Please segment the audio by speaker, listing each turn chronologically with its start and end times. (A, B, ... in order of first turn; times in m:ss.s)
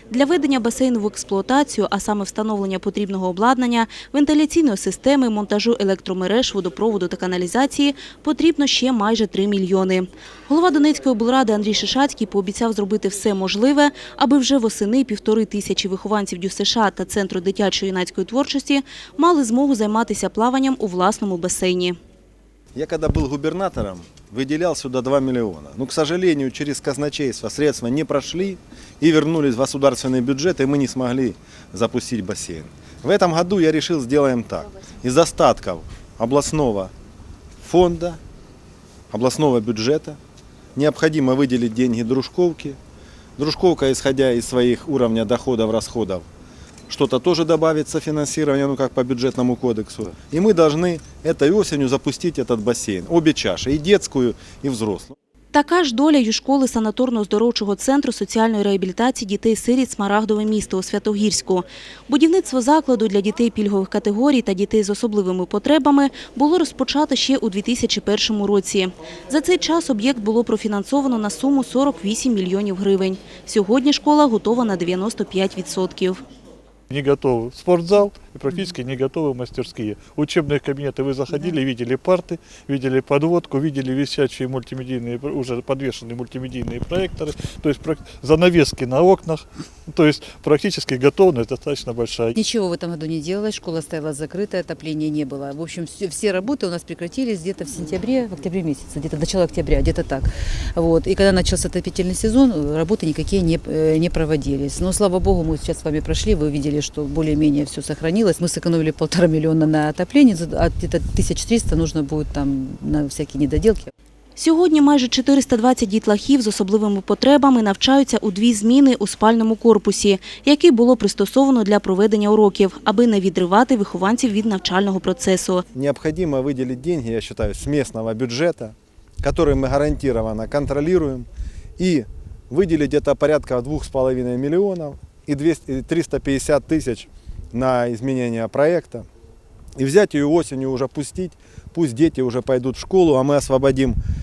0:00.1-0:22.0 A
0:22.7-0:36.9 B
0:37.6-0:38.2 B
0:39.1-0:40.2 B
0:40.8-0:42.8 B
0:43.4-0:46.2 B
0:46.9-0:55.1 B
0:55.5-1:16.2 A
1:16.9-1:32.3 C
1:32.4-1:53.9 D
1:54.4-2:05.6 A
2:05.7-2:11.3 B
2:11.8-2:19.0 B
2:19.8-2:24.0 B